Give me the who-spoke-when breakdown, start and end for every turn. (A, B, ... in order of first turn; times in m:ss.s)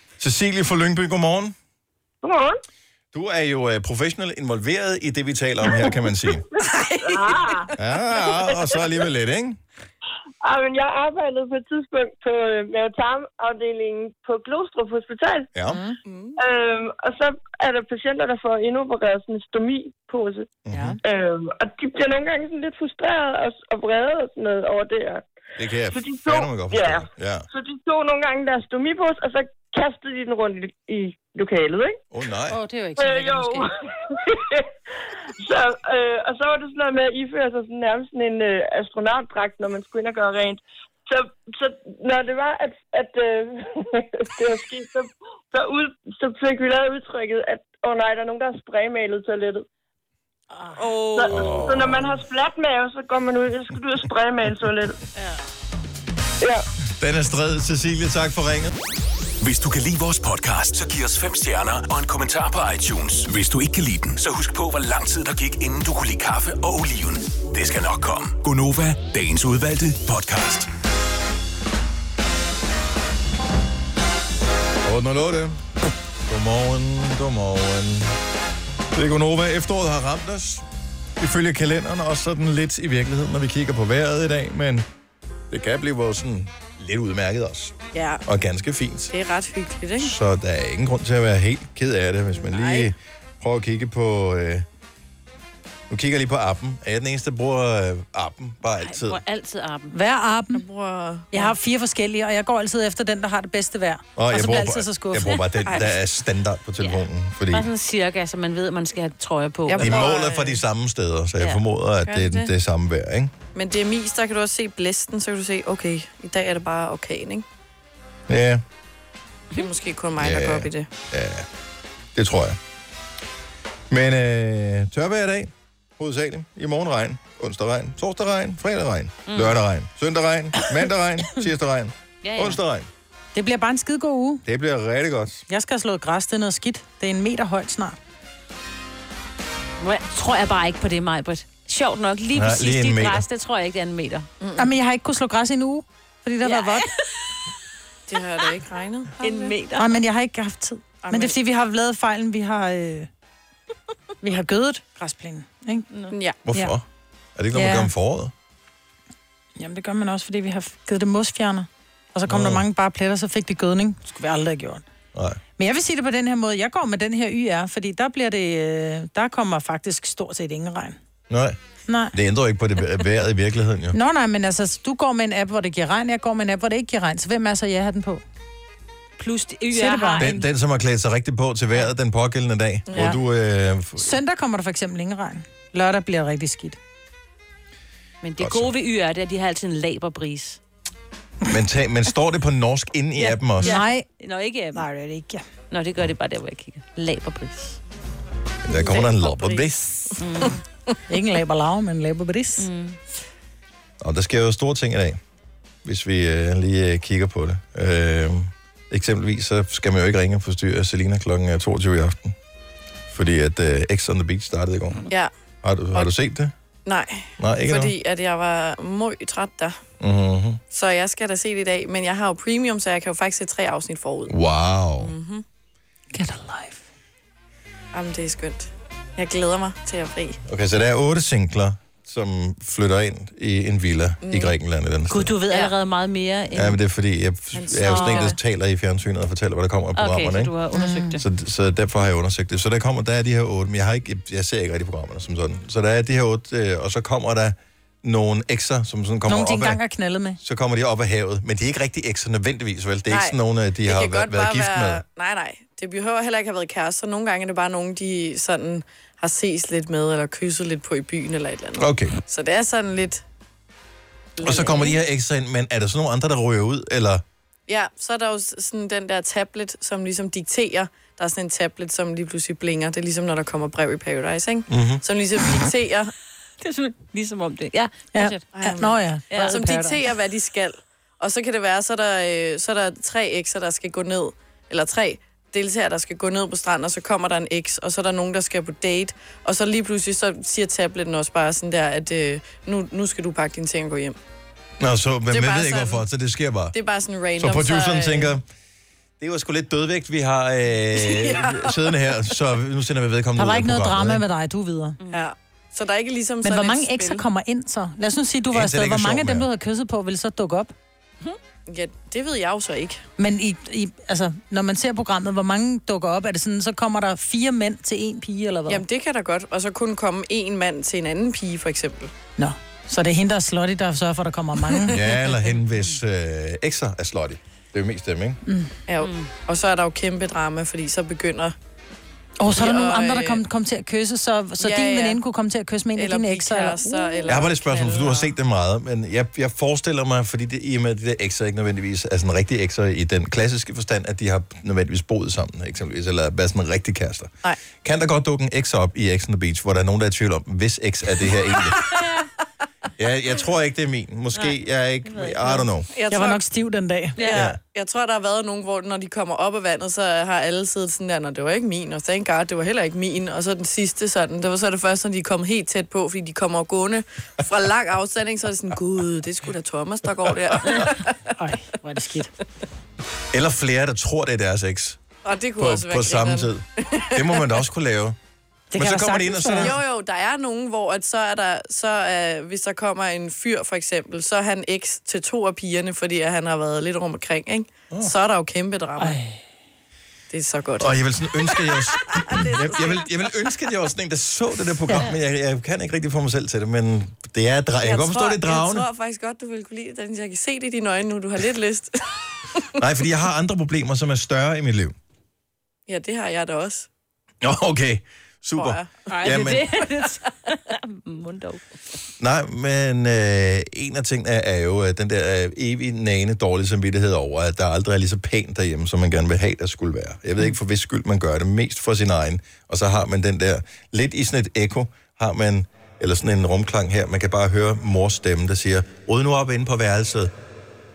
0:00.2-0:01.5 A
0:03.1-0:06.4 A
0:07.8-0:09.6 A
0:15.5-0:15.8 A
0:15.7-0:16.0 B
0:16.0-0:16.4 C
0:18.2-0:18.6 D
0:19.9-0:20.2 D
0:20.6-0:21.0 A
0:20.7-0:21.0 B
0:21.0-0:23.1 D
0:25.6-0:27.4 A
0:27.6-0:28.2 D
0:29.1-0:29.7 D
0:30.3-0:31.9 D
0:32.1-0:32.6 A
0:32.5-0:33.7 E
0:36.3-0:37.0 D
0:37.5-0:38.4 D
0:39.0-0:39.3 D
0:47.8-0:49.2 D
0:50.5-0:50.9 B
0:51.3-0:52.1 A
0:57.0-0:58.7 A
0:59.4-1:10.7 F
1:14.8-1:15.6 A
1:16.2-1:18.2 A
1:18.9-1:20.6 A
1:21.2-1:24.8 A
1:25.5-1:29.1 A
1:27.9-1:28.2 C
1:29.1-1:30.1 C
1:30.0-1:34.6 A
1:32.3-1:32.9 C
1:35.9-1:39.2 A
1:38.8-1:39.9 E
1:39.9-1:40.6 B
1:40.5-1:41.5 C
1:41.3-1:45.4 B
1:44.2-1:47.7 A
1:45.6-1:45.9 C
1:46.8-1:50.0 E
1:49.7-1:50.6 C
1:49.8-1:53.3 A
1:52.0-1:52.5 C
1:53.5-1:57.4 C
1:58.3-1:58.6 A
1:59.5-2:00.9 C
2:00.2-2:01.5 A
2:02.1-2:02.6 A
2:03.9-2:12.9 A
2:09.3-2:09.5 E
2:12.2-2:12.6 E
2:13.3-2:14.4 B
2:14.4-2:15.4 A
2:15.5-2:18.0 B
2:19.8-2:24.3 E
2:22.3-2:23.2 A
2:24.4-2:24.7 C
2:24.6-2:26.9 B
2:26.4-2:26.8 E
2:28.1-2:29.5 C
2:29.2-2:30.0 E
2:29.8-2:33.1 B
2:31.0-2:31.4 C
2:34.2-2:35.9 B
2:36.1-2:36.4 C
2:36.4-2:36.8 A
2:37.4-2:38.3 A
2:37.5-2:37.9 B
2:39.6-2:44.8 B
2:42.3-2:42.6 A
2:45.1-2:45.4 A
2:45.6-2:51.0 B
2:51.3-2:51.6 A
2:51.9-2:52.1 B
2:52.1-2:54.0 A
2:53.9-2:58.2 B
2:59.2-3:00.4 E
2:59.7-3:00.3 B
3:00.2-3:04.1 A
3:02.9-3:03.2 C
3:04.0-3:06.8 B
3:08.2-3:10.6 E
3:08.4-3:08.7 A
3:11.4-3:13.8 A
3:13.2-3:14.8 E
3:13.6-3:14.0 B
3:14.7-3:15.4 B
3:15.7-3:17.8 E
3:18.6-3:20.1 A
3:18.8-3:20.2 C
3:20.2-3:20.6 E
3:21.1-3:22.7 B
3:22.6-3:23.0 E
3:24.0-3:25.2 A
3:25.8-3:32.4 A
3:33.1-3:35.0 A
3:35.6-3:36.5 A
3:36.8-3:39.8 C
3:37.4-3:37.9 A
3:40.0-3:40.6 A
3:40.7-3:44.3 C
3:44.3-3:45.1 A
3:45.0-3:45.4 C
3:46.1-3:46.8 B
3:47.9-3:50.4 C
3:50.4-3:55.3 A
3:54.2-3:54.5 C
3:55.1-3:56.8 E
3:56.5-4:00.5 A
3:57.5-3:58.3 C
3:57.9-3:58.3 E
4:00.0-4:01.2 E
4:00.7-4:01.2 B
4:01.2-4:09.8 A
4:09.3-4:10.4 B
4:10.4-4:15.0 A
4:13.1-4:23.2 C
4:21.8-4:22.2 A
4:24.4-4:25.0 C
4:24.4-4:27.2 A
4:27.7-4:36.1 C
4:34.7-4:35.0 A
4:36.6-4:38.4 E
4:38.1-4:40.0 B
4:38.5-4:54.2 C
4:39.3-4:39.6 E
4:54.8-4:56.7 A
4:55.3-4:56.0 C
4:56.7-4:58.3 C
4:57.4-4:58.4 A
4:59.2-5:04.2 A
5:01.0-5:01.8 C
5:03.4-5:05.0 B
5:05.1-5:07.2 C
5:06.4-5:10.7 B
5:08.5-5:09.5 A
5:11.7-5:13.0 C
5:13.2-5:18.8 B
5:18.7-5:22.1 C
5:22.4-5:25.0 B
5:24.9-5:28.4 A
5:28.4-5:28.7 B
5:28.9-5:31.5 C
5:29.0-5:29.3 E
5:32.4-5:37.4 B
5:32.5-5:33.4 C
5:34.6-5:35.2 C
5:36.0-5:38.3 C
5:37.3-5:51.9 A
5:53.0-5:55.9 A
5:55.1-5:55.6 E
5:55.9-5:56.4 C
5:56.1-5:57.3 B
5:57.2-5:57.5 E
5:57.2-6:11.2 C
5:57.3-5:57.6 A
6:11.4-6:12.3 B
6:13.3-6:15.0 A
6:15.2-6:17.6 C
6:15.6-6:18.2 A
6:18.7-6:19.7 B
6:18.7-6:19.8 A
6:19.6-6:29.2 C
6:29.0-6:29.4 B
6:30.3-6:33.0 C
6:30.8-6:38.9 A
6:37.8-6:42.0 C
6:42.8-6:44.9 A
6:45.9-6:46.9 C
6:47.4-6:49.7 A
6:48.6-6:49.0 C
6:49.1-6:51.6 E
6:52.2-7:10.3 A